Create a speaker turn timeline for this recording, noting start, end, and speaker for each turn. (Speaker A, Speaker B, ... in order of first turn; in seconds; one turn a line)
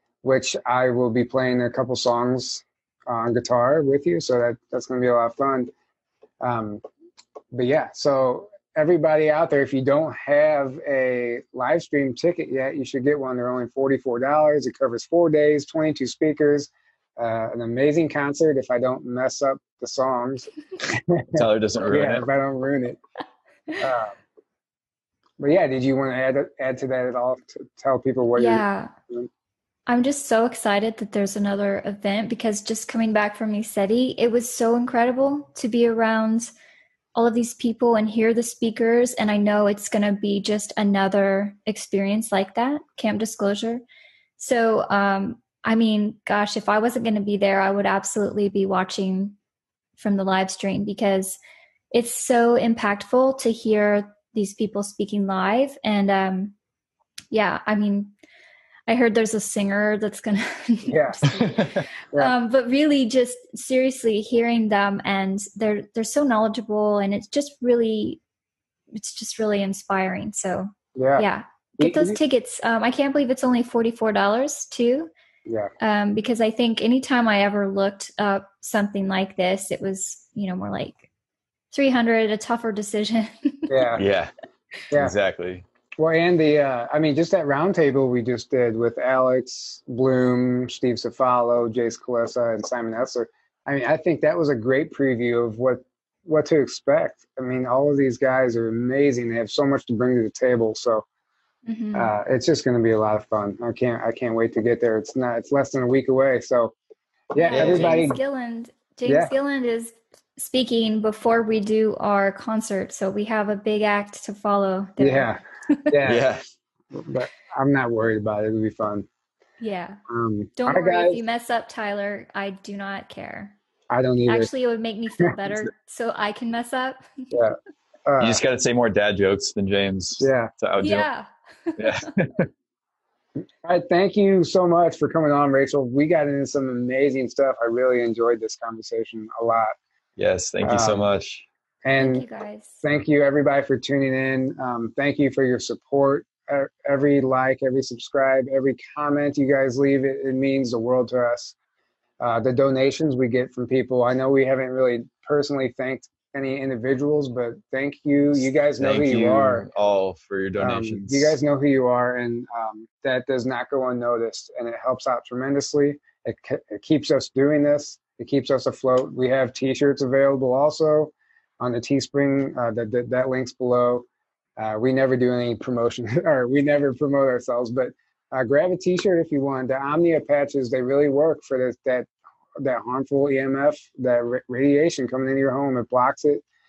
Speaker A: 0.2-5.7
Speaker A: 6.4-6.8
Speaker A: 7.5-23.0
Speaker B: 21.3-22.2
Speaker A: 23.8-24.2
Speaker A: 25.4-29.3
Speaker C: 28.3-28.9
Speaker C: 29.9-36.5
Speaker C: 37.1-43.8
Speaker C: 44.4-49.4
Speaker C: 50.0-51.4
Speaker C: 51.9-56.5
Speaker C: 57.3-58.1
Speaker C: 58.9-68.2
Speaker A: 60.9-61.5
Speaker C: 68.9-75.1
Speaker A: 70.9-71.2
Speaker A: 71.8-72.2
Speaker A: 75.5-75.7
Speaker C: 75.8-81.0
Speaker C: 81.7-83.9
Speaker A: 83.7-84.0
Speaker B: 83.9-84.3
Speaker B: 84.9-85.6
Speaker A: 86.0-101.0
Speaker C: 101.7-102.1
Speaker A: 101.9-106.7
Speaker A: 107.3-108.2
Speaker C: 107.4-115.9
Speaker B: 107.5-108.0
Speaker A: 109.1-109.3
Speaker A: 115.0-116.3
Speaker B: 116.0-116.5
Speaker A: 116.9-119.1
Speaker C: 119.6-120.0
Speaker A: 120.1-121.2
Speaker C: 120.5-123.5
Speaker A: 123.9-124.5
Speaker C: 124.3-127.3
Speaker A: 125.2-125.5
Speaker A: 127.3-128.4
Speaker B: 128.2-131.1
Speaker A: 130.2-130.5
Speaker C: 130.8-132.0
Speaker B: 131.8-132.5
Speaker A: 133.6-139.8
Speaker B: 140.2-141.4
Speaker A: 140.6-141.0
Speaker A: 141.8-142.2
Speaker C: 142.0-142.8
Speaker A: 142.8-151.6
Speaker A: 152.2-159.7
Speaker B: 158.8-161.3
Speaker A: 160.6-186.4